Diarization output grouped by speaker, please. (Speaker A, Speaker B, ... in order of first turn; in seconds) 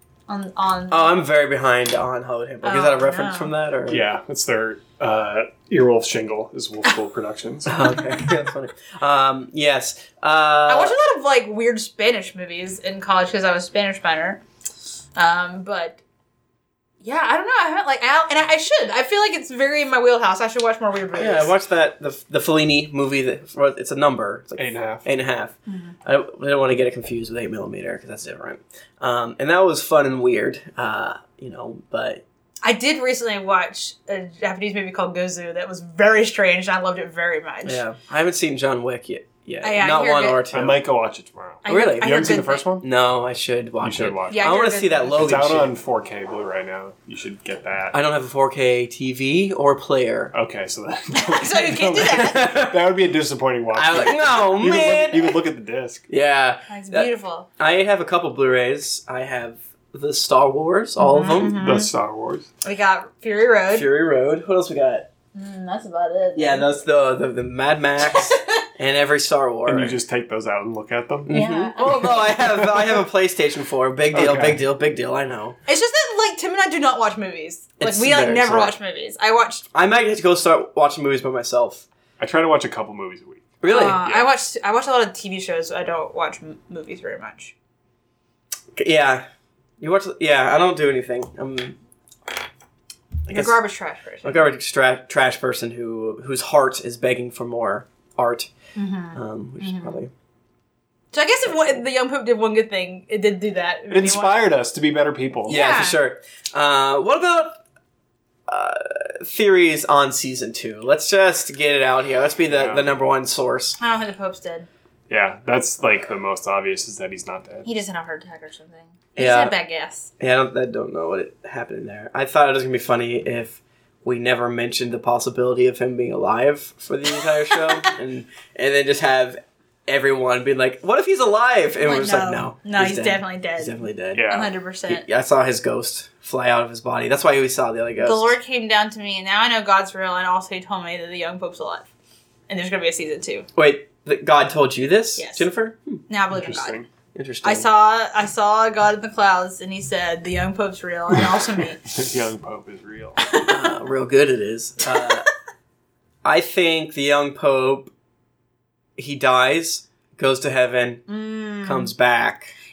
Speaker A: 0.3-1.2, 2.6-3.5, 10.7-14.4, 15.2-16.0, 17.0-21.5, 25.7-25.9, 32.6-37.8, 39.6-40.5, 41.6-42.7, 44.3-45.3, 51.1-52.5, 56.7-57.5, 61.0-61.9, 62.6-63.9, 65.3-66.7, 68.1-68.5, 71.3-72.4, 75.7-79.7, 83.7-87.5, 93.3-94.5, 98.8-100.0, 101.1-104.4, 105.5-106.0, 113.8-114.7, 117.7-120.1, 127.5-127.8, 131.8-135.0, 138.0-141.9, 142.5-143.5, 145.2-145.5, 146.1-146.8, 147.4-151.8, 153.2-153.7, 154.9-155.2, 161.1-161.9
Speaker B: 0.9-4.0, 7.7-10.9, 21.1-32.2, 37.6-40.8, 41.7-42.2, 42.8-45.7, 47.9-50.3, 52.1-52.8, 53.8-55.4, 56.1-61.6, 63.7-65.1, 66.3-70.0, 71.3-75.6, 77.8-78.8, 79.7-81.9, 83.6-84.0, 88.8-89.2, 89.8-91.8, 93.3-93.6, 94.2-98.5, 99.1-100.1, 105.5-107.6, 108.5-113.8, 119.2-119.6, 120.2-134.3, 134.9-138.4, 143.6-146.0, 147.2-147.7, 153.4-155.3, 156.2-157.9, 159.0-161.0, 161.6-162.5
Speaker C: 3.9-7.8, 24.6-25.1, 40.5-42.9, 43.8-44.5, 45.1-48.0, 50.3-56.0, 61.4-62.5, 69.7-71.4, 72.4-72.9, 74.1-74.6, 82.2-84.3, 103.9-105.6, 112.5-112.9, 115.1-117.7, 134.1-134.5, 146.3-146.9, 151.8-153.2